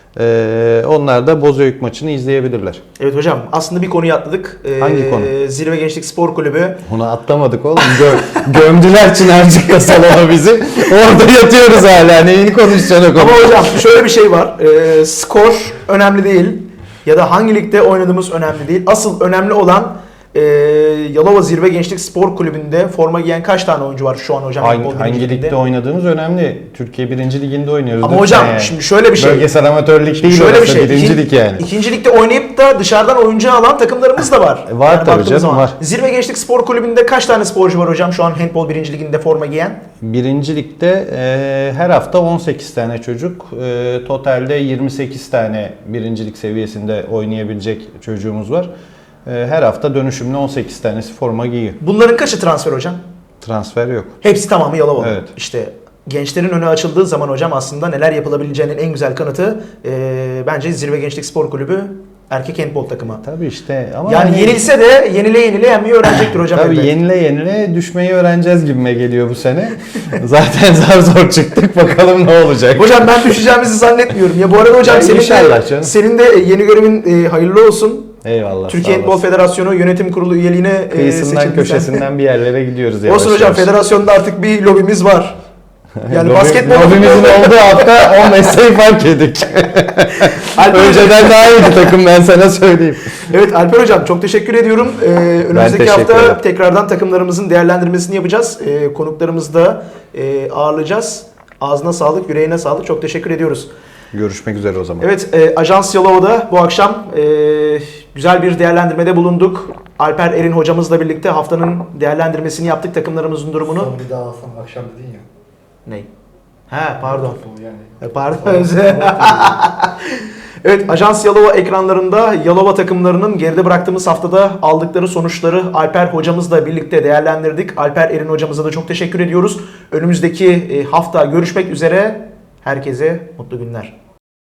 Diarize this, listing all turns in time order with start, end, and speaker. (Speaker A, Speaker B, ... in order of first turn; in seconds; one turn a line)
Speaker A: 0.1-2.8
Speaker B: 3.0-6.8
Speaker A: 4.8-5.3
Speaker A: 6.8-13.8
Speaker B: 13.2-25.6
Speaker A: 24.6-31.7
Speaker B: 28.0-29.5
Speaker B: 30.2-39.8
Speaker A: 34.7-35.8
Speaker A: 40.0-48.7
Speaker A: 49.2-51.8
Speaker B: 51.8-53.0
Speaker A: 53.4-54.2
Speaker B: 54.2-63.2
Speaker A: 55.0-55.3
Speaker A: 63.2-64.7
Speaker B: 64.1-66.9
Speaker A: 66.5-73.2
Speaker B: 72.8-78.2
Speaker A: 74.8-76.0
Speaker A: 78.2-79.2
Speaker B: 78.7-82.1
Speaker A: 80.9-83.7
Speaker B: 83.1-85.4
Speaker A: 86.0-93.3
Speaker B: 86.1-87.9
Speaker B: 90.4-91.6
Speaker B: 93.3-103.7
Speaker A: 95.5-96.4
Speaker A: 104.1-105.1
Speaker B: 105.0-113.9
Speaker C: 113.7-115.2
Speaker B: 116.7-117.4
Speaker C: 117.0-119.6
Speaker B: 118.0-133.9